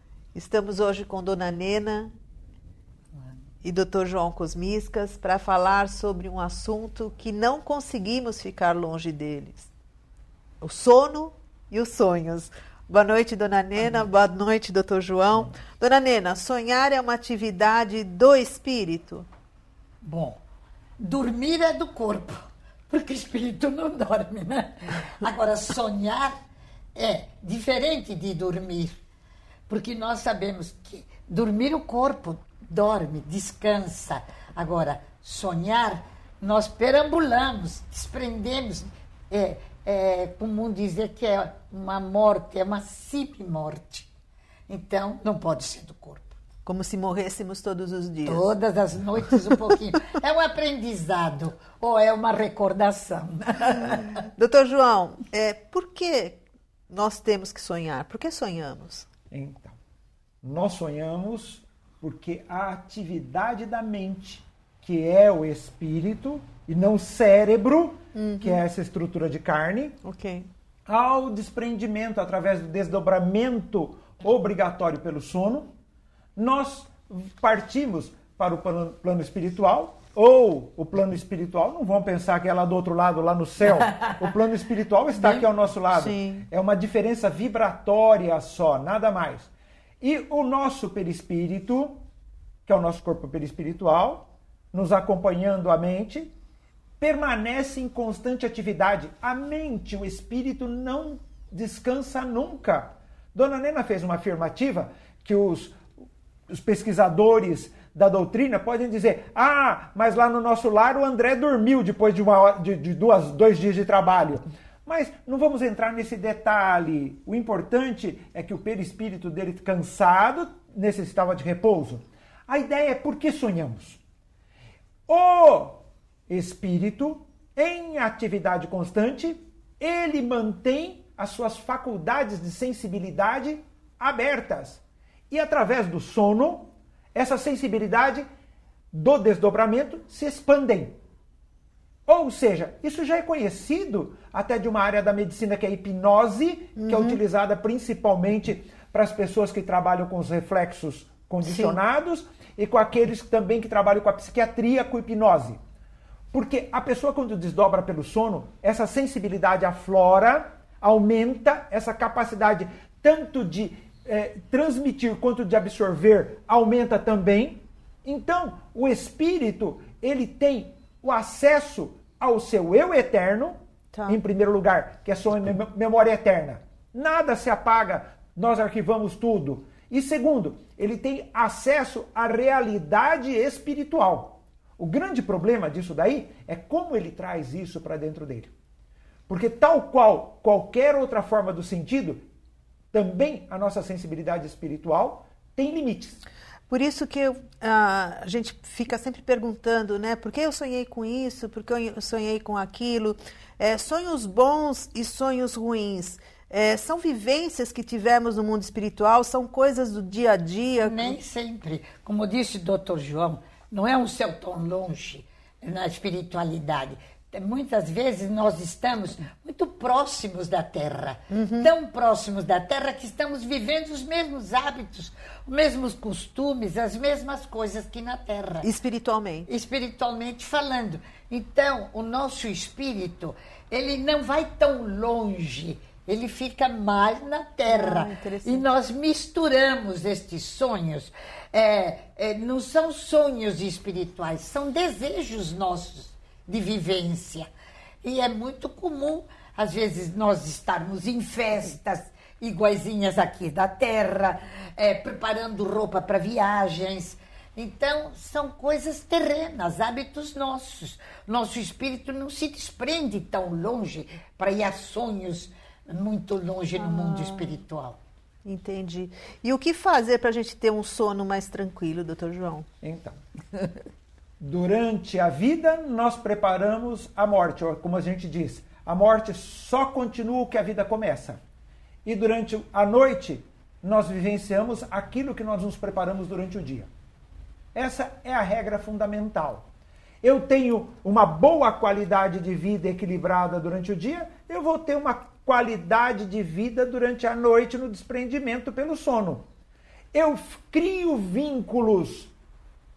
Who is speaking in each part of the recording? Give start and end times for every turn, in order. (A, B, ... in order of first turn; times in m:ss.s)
0:00.3-0:02.1 A
0:03.6-0:09.7 A
0:10.6-0:19.3 A
0:20.0-0:20.4 B
0:21.0-0:26.4 B
0:27.0-0:28.9 B
0:29.7-0:44.1 B
0:44.7-0:46.4 B
0:46.6-0:48.5 A
0:48.2-0:54.2 B
0:54.4-0:59.1 A
0:59.3-0:59.8 C
1:00.4-1:10.0 C
1:08.2-1:08.6 A
1:10.0-1:10.5 A
1:10.9-1:15.7 C
1:16.4-1:32.0 C
1:25.9-1:26.5 A
1:32.7-1:36.3 C
1:37.0-1:45.8 C
1:46.5-2:04.0 C
2:05.1-2:18.3 C
2:18.9-2:21.0 C
2:22.1-2:35.6 C
2:26.8-2:27.2 A
2:31.4-2:31.8 A
2:36.3-3:08.5 C
3:09.3-3:12.2 C
3:12.9-3:16.2 C
3:16.7-3:31.2 A
3:30.8-3:48.7 B
3:41.3-3:41.7 A
3:48.6-3:49.5 A
3:49.5-4:07.5 B
3:57.7-3:58.7 A
4:08.0-4:28.0 B
4:26.8-4:27.6 A
4:28.4-4:32.7 A
4:32.8-4:33.2 C
4:34.4-4:41.4 C
4:42.0-4:46.9 C
4:47.7-4:49.7 C
4:50.2-4:59.5 C
5:00.1-5:02.3 C